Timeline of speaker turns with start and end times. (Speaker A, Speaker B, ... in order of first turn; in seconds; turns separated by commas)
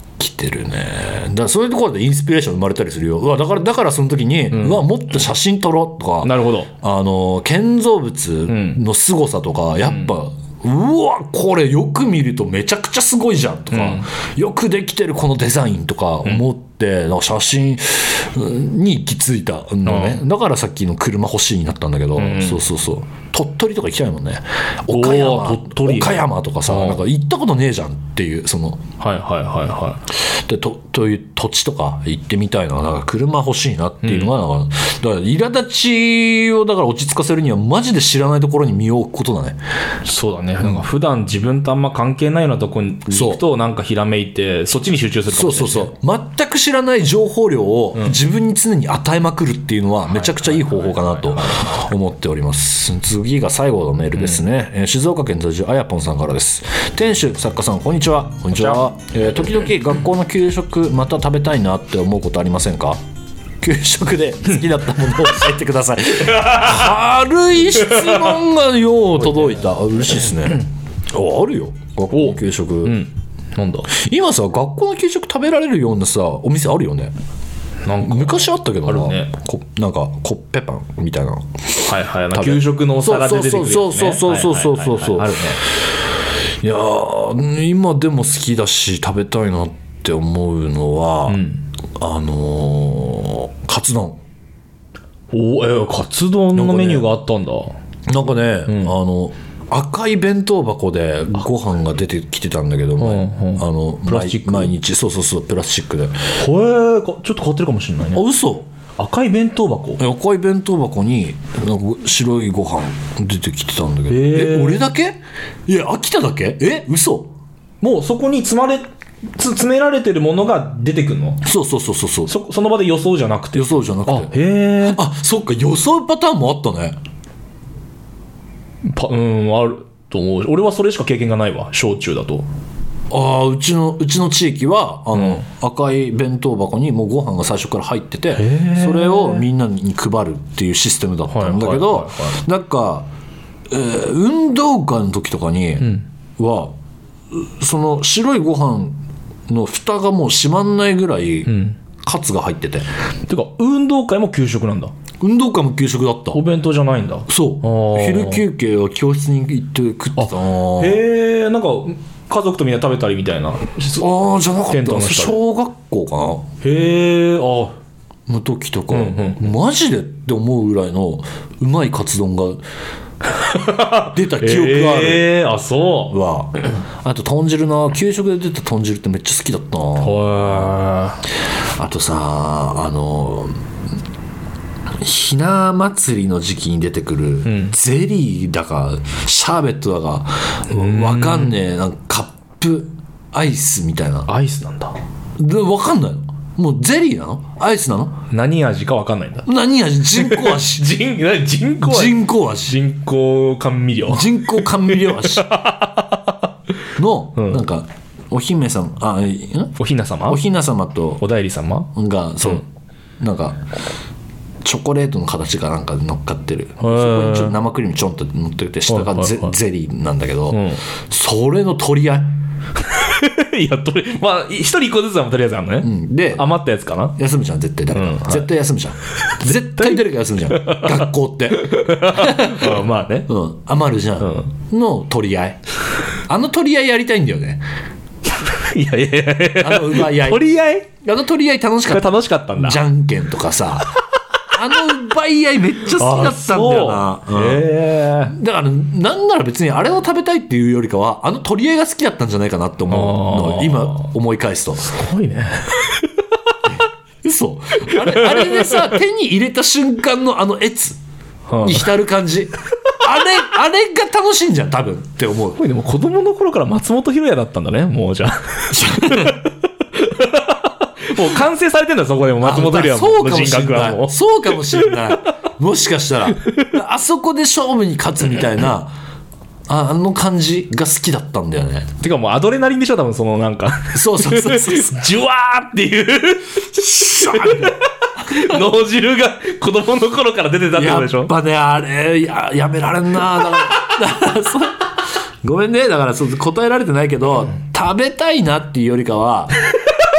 Speaker A: 0.2-28.8, Speaker B: 4.5-4.9, Speaker B: 6.2-6.7, Speaker B: 8.5-8.8, Speaker B: 13.7-14.1, Speaker B: 19.9-20.2, Speaker B: 22.2-22.6, Speaker B: 24.9-27.0, Speaker B: 29.0-30.0, Speaker A: 30.1-39.6, Speaker B: 34.0-34.3, Speaker B: 40.0-45.9, Speaker A: 43.1-43.4, Speaker A: 45.3-63.0, Speaker B: 50.1-51.8, Speaker B: 54.1-54.4, Speaker B: 58.6-58.8, Speaker A: 63.6-73.0, Speaker B: 66.4-66.9, Speaker B: 68.0-68.3, Speaker B: 72.1-73.9, Speaker A: 73.9-77.1, Speaker B: 77.8-79.3, Speaker A: 78.0-85.5, Speaker B: 81.8-85.6, Speaker A: 86.6-91.5, Speaker B: 91.3-91.7, Speaker A: 92.0-94.2, Speaker B: 95.3-97.8, Speaker A: 96.5-97.1, Speaker A: 98.1-106.3, Speaker B: 103.0-104.7, Speaker B: 106.4-108.2, Speaker A: 108.1-108.7, Speaker B: 109.0-110.0, Speaker A: 110.0-117.3, Speaker B: 114.1-114.9, Speaker B: 117.8-121.4, Speaker A: 121.4-122.3, Speaker B: 122.3-125.0, Speaker A: 123.5-127.0, Speaker B: 128.8-132.5, Speaker A: 133.1-143.1, Speaker B: 135.2-135.4, Speaker B: 138.4-139.4, Speaker B: 141.3-142.4, Speaker A: 143.7-146.7, Speaker A: 147.3-152.9, Speaker B: 151.5-151.8, Speaker B: 153.3-154.9, Speaker A: 155.2-156.4, Speaker B: 156.3-158.4, Speaker A: 157.3-161.0, Speaker B: 160.2-164.1, Speaker A: 164.0-166.5, Speaker B: 164.7-165.4, Speaker B: 166.6-167.8, Speaker A: 168.3-172.6, Speaker B: 168.9-169.5, Speaker B: 173.3-176.1, Speaker A: 174.0-175.3, Speaker A: 176.1-180.8, Speaker B: 180.0-181.2, Speaker A: 181.8-183.6, Speaker A: 185.0-194.3, Speaker B: 187.5-187.7, Speaker B: 190.7-191.6, Speaker B: 194.3-194.9, Speaker A: 195.4-198.2, Speaker B: 198.3-199.5, Speaker A: 199.5-200.9, Speaker B: 200.1-206.5, Speaker A: 201.8-202.8, Speaker A: 204.1-205.5, Speaker A: 207.0-211.2, Speaker B: 209.8-210.4, Speaker B: 211.2-211.9, Speaker A: 211.9-212.7, Speaker A: 213.2-213.6, Speaker A: 214.6-222.3, Speaker B: 216.8-217.6, Speaker B: 218.9-219.5, Speaker B: 220.5-220.8, Speaker B: 222.8-227.2, Speaker A: 225.8-226.5, Speaker A: 227.2-235.6, Speaker B: 227.9-228.5, Speaker B: 229.2-233.3, Speaker B: 234.2-234.5, Speaker A: 236.3-237.6, Speaker B: 238.2-240.9, Speaker A: 239.6-240.4, Speaker A: 241.0-243.9, Speaker B: 241.9-242.8, Speaker A: 244.5-254.9, Speaker B: 246.0-248.3, Speaker B: 252.9-254.1, Speaker B: 254.8-256.2, Speaker A: 257.2-261.0, Speaker B: 257.9-259.0, Speaker B: 261.5-261.9, Speaker A: 261.6-265.6, Speaker B: 265.6-275.2, Speaker A: 268.7-269.4, Speaker A: 272.4-278.9, Speaker A: 279.7-281.9, Speaker B: 282.0-291.3, Speaker A: 283.9-285.0, Speaker A: 286.7-287.8, Speaker A: 290.7-294.9, Speaker A: 295.4-299.6